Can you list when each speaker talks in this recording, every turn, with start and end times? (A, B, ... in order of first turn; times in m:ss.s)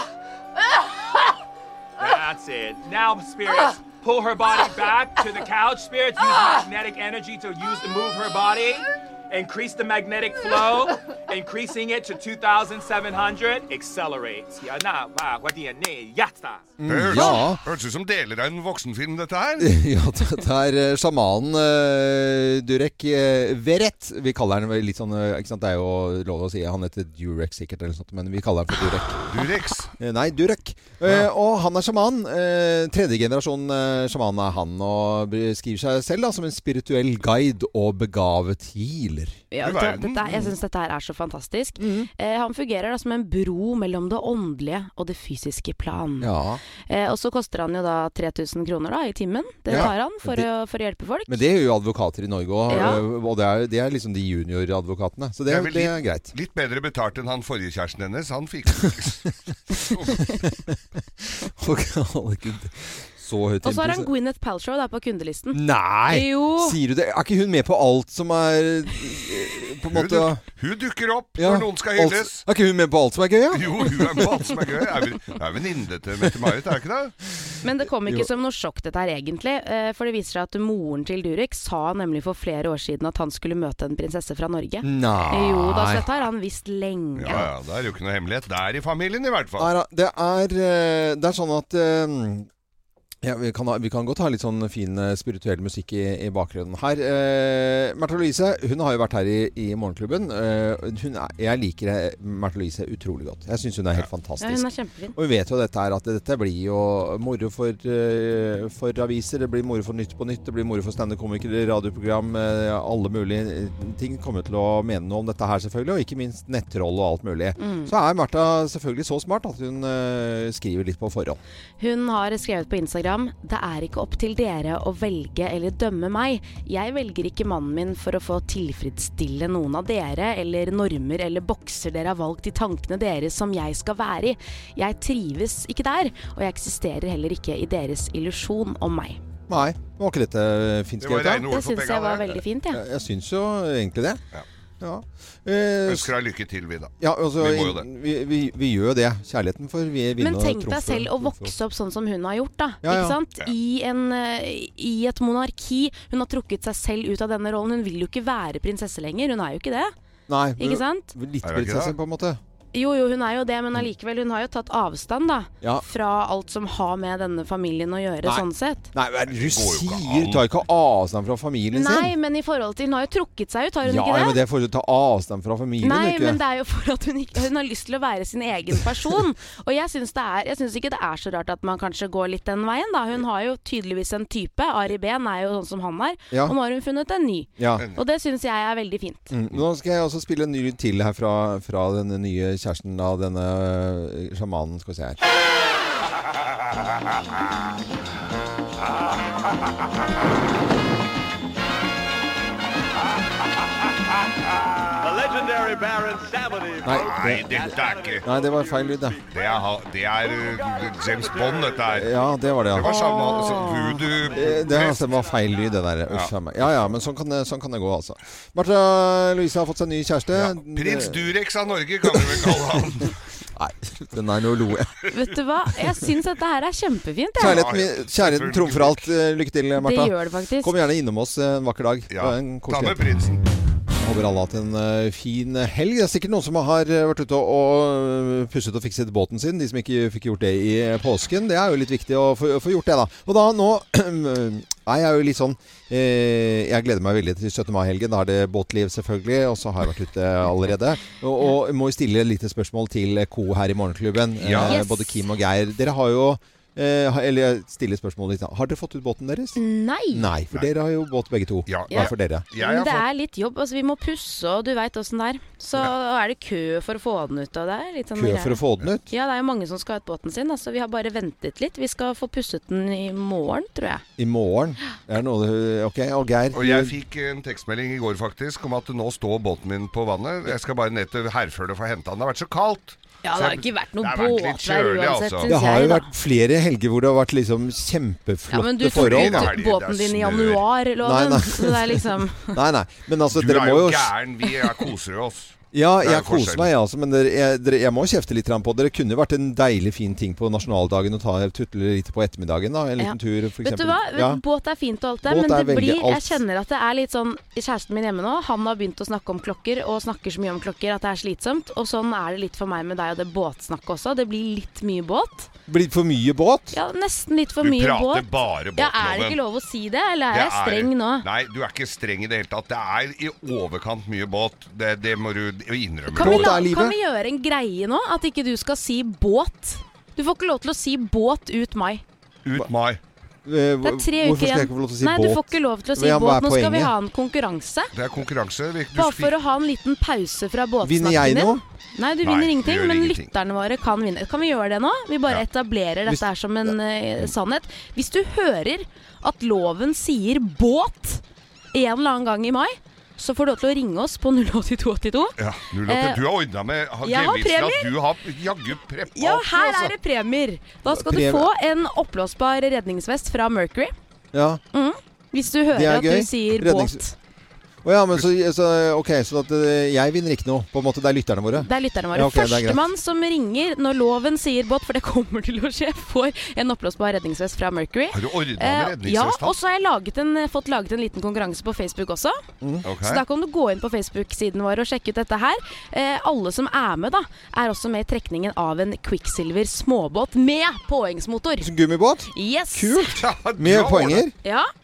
0:02.0-0:16.7 A
0:16.8-0:17.6 B
0:16.8-0:19.7 C
0:17.1-0:17.4 D
0:19.6-0:29.3 B
0:29.2-0:29.9 C
0:30.0-0:39.4 B
0:39.5-0:51.4 D
0:39.6-0:40.4 C
0:41.8-0:42.1 B
0:46.2-0:46.6 B
0:49.7-0:50.5 B
0:51.3-0:56.3 B
0:52.7-0:53.0 D
0:55.5-1:00.3 C
1:00.1-1:04.1 B
1:03.6-1:06.8 D
1:05.5-1:10.4 B
1:09.9-1:12.4 C
1:11.4-1:14.3 B
1:13.5-1:17.1 C
1:17.6-1:27.5 D
1:24.8-1:26.0 B
1:27.2-1:29.7 C
1:29.6-1:32.5 B
1:33.2-2:01.4 B
1:44.4-1:45.2 D
1:57.6-1:57.9 D
2:01.8-2:19.2 D
2:19.5-2:21.5 B
2:21.0-2:22.4 C
2:21.4-2:22.8 D
2:22.7-2:24.2 B
2:24.8-2:26.1 B
2:25.8-2:27.8 C
2:27.0-2:31.5 B
2:30.2-2:39.9 D
2:32.8-2:33.2 B
2:40.3-2:42.4 B
2:40.6-2:41.1 D
2:41.4-2:41.9 C
2:42.7-2:48.9 D
2:48.2-2:52.1 B
2:49.2-2:50.4 C
2:51.7-2:54.4 D
2:53.8-2:56.4 B
2:55.8-3:09.3 D
3:07.6-3:07.9 B
3:09.3-3:15.2 B
3:26.8-3:28.3 C
3:26.8-3:29.2 B
3:29.3-3:32.1 C
3:31.9-3:41.3 B
3:32.7-3:35.1 C
3:32.8-3:34.0 D
3:40.3-3:43.1 C
3:42.1-3:42.6 B
3:43.6-3:45.1 B
3:45.1-3:47.6 D
3:47.4-3:53.0 B
3:47.4-3:49.1 C
3:49.8-3:50.7 D
3:52.1-3:53.4 C
3:54.0-4:19.6 B
4:14.4-4:14.8 C
4:14.6-4:15.2 D
4:19.6-4:20.3 D
4:20.1-4:22.5 B
4:21.6-4:23.0 C
4:21.9-4:34.0 D
4:28.1-4:29.1 B
4:34.2-4:36.9 B
4:36.5-4:45.5 C
4:43.2-4:46.1 D
4:45.5-4:49.5 B
4:48.5-4:52.6 D
4:48.9-4:50.6 C
4:51.0-4:54.1 B
4:53.3-4:56.7 C
4:55.7-5:04.4 B
5:03.0-5:15.5 D
5:05.3-5:06.4 B
5:15.7-5:16.8 B
5:16.7-5:21.2 D
5:17.6-5:19.4 C
5:20.3-5:26.6 C
5:26.1-5:32.0 D
5:26.2-5:26.9 B
5:32.4-5:33.0 C
5:33.4-5:36.9 B
5:33.8-5:37.9 D
5:37.9-5:39.3 C
5:38.9-5:51.2 D
5:40.8-5:41.6 B
5:42.2-5:43.3 C
5:46.0-5:46.7 B
5:51.7-5:55.3 D
5:55.4-5:59.9 C
5:55.8-5:56.2 D
5:57.0-5:57.9 D
5:59.1-6:03.9 D
6:00.9-6:01.5 B
6:04.3-6:04.6 B
6:04.7-6:07.1 D
6:05.7-6:07.0 B
6:07.8-6:12.8 B
6:11.6-6:22.4 D
6:18.1-6:19.5 C
6:22.8-6:23.2 C
6:23.0-6:31.7 D
6:31.6-6:34.3 B
6:32.3-6:33.1 D
6:33.1-6:34.2 C
6:34.4-6:34.7 D